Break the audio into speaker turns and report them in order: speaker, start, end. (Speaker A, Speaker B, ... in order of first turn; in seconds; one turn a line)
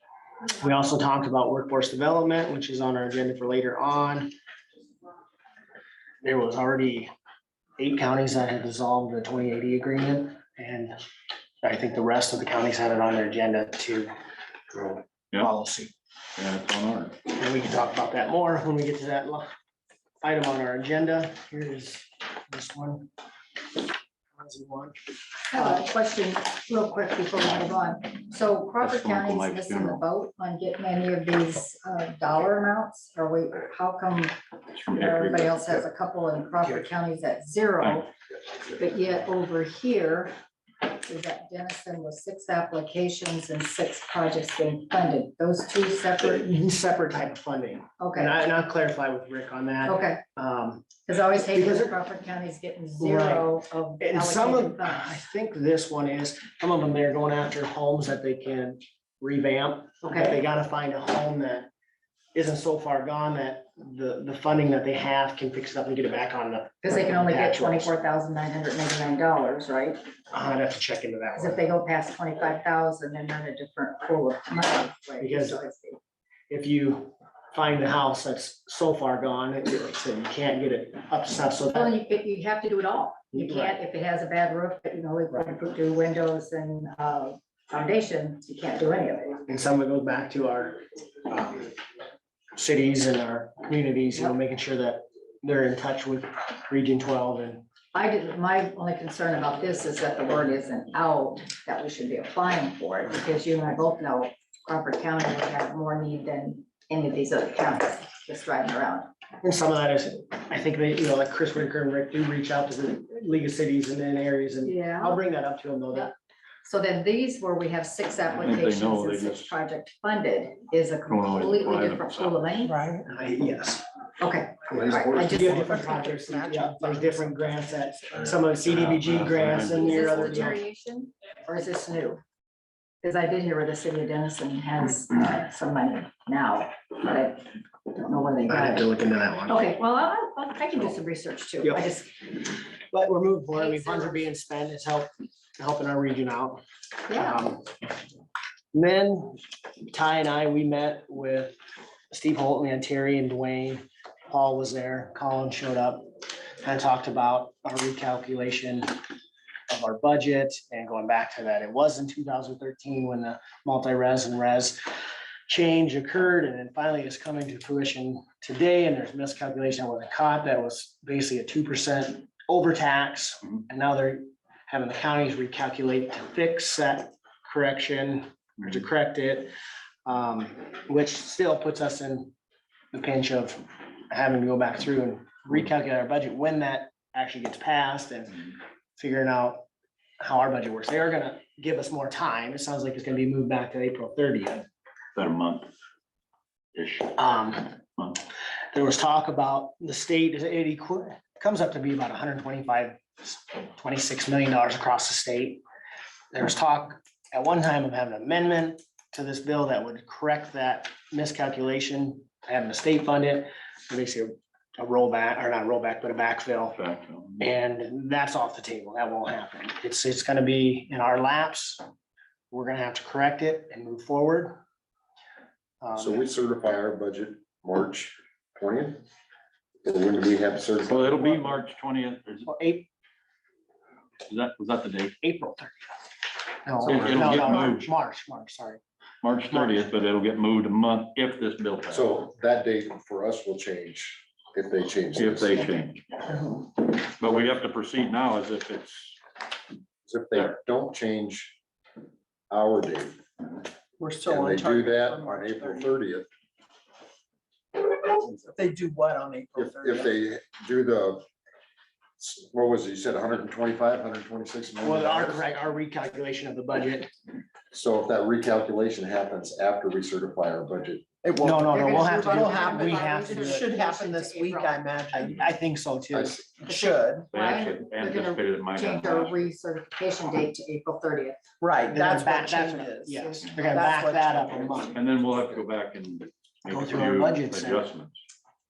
Speaker A: 0.6-4.3
Speaker A: 6.2-7.1
Speaker A: 7.8-11.0
Speaker A: 11.6-14.1
Speaker A: 14.7-15.9
Speaker B: 16.4-17.1
Speaker A: 17.3-19.5
Speaker A: 20.2-23.1
Speaker A: 24.3-24.9
Speaker C: 25.5-34.4
Speaker A: 25.5-25.8
Speaker B: 28.8-30.0
Speaker B: 34.7-35.6
Speaker C: 34.9-38.1
Speaker B: 37.8-38.0
Speaker C: 38.7-40.3
Speaker C: 40.8-46.4
Speaker A: 46.2-51.9
Speaker C: 48.0-48.4
Speaker C: 49.8-50.2
Speaker C: 51.0-55.2
Speaker A: 52.9-61.7
Speaker C: 60.0-60.4
Speaker A: 62.3-67.9
Speaker C: 66.8-70.0
Speaker A: 70.3-71.6
Speaker C: 71.3-76.0
Speaker A: 75.2-75.6
Speaker A: 76.5-81.9
Speaker C: 81.7-89.4
Speaker A: 83.3-83.8
Speaker A: 89.5-91.7
Speaker A: 92.5-97.7
Speaker C: 97.9-109.1
Speaker A: 109.4-116.1
Speaker C: 114.6-115.2
Speaker C: 116.6-122.8
Speaker B: 118.3-119.5
Speaker B: 121.1-122.5
Speaker D: 122.7-123.0
Speaker A: 123.0-123.8
Speaker C: 124.2-125.5
Speaker A: 124.8-130.6
Speaker D: 124.8-128.3
Speaker B: 128.6-130.5
Speaker C: 129.8-132.2
Speaker C: 133.0-138.9
Speaker A: 138.5-139.6
Speaker C: 139.5-142.4
Speaker A: 142.9-147.7
Speaker C: 143.6-144.3
Speaker C: 147.1-147.4
Speaker A: 148.7-151.6
Speaker A: 152.1-158.9
Speaker A: 159.7-164.9
Speaker A: 165.5-179.5
Speaker A: 180.0-182.3
Speaker A: 182.9-189.6
Speaker A: 190.2-194.7
Speaker B: 195.1-195.7
Speaker B: 196.7-197.2
Speaker A: 197.1-197.8
Speaker A: 198.7-205.6
Speaker A: 206.3-216.8
Speaker B: 216.7-217.4
Speaker A: 217.4-221.8
Speaker A: 222.5-224.6
Speaker A: 225.8-226.3
Speaker E: 225.9-229.0
Speaker E: 229.8-231.3
Speaker B: 230.8-232.5
Speaker A: 232.4-232.9
Speaker B: 234.3-235.2
Speaker A: 235.2-235.9
Speaker A: 236.6-238.8
Speaker B: 236.8-237.9
Speaker B: 239.2-242.2
Speaker A: 239.5-239.9
Speaker E: 241.9-245.7
Speaker B: 245.1-246.0
Speaker B: 246.8-249.2
Speaker E: 250.1-251.6
Speaker E: 252.5-253.2
Speaker D: 254.0-256.0
Speaker E: 254.2-256.3
Speaker D: 257.9-260.2
Speaker E: 259.6-261.2
Speaker E: 262.2-265.4
Speaker A: 264.8-267.1
Speaker E: 267.7-271.1
Speaker D: 271.2-275.5
Speaker A: 271.4-273.7
Speaker C: 271.7-274.9
Speaker A: 275.1-276.4
Speaker E: 276.1-276.4
Speaker D: 276.6-277.3
Speaker C: 276.7-281.4
Speaker B: 277.3-279.5
Speaker D: 281.6-284.9
Speaker A: 281.9-285.0
Speaker B: 284.8-288.2
Speaker A: 286.6-287.8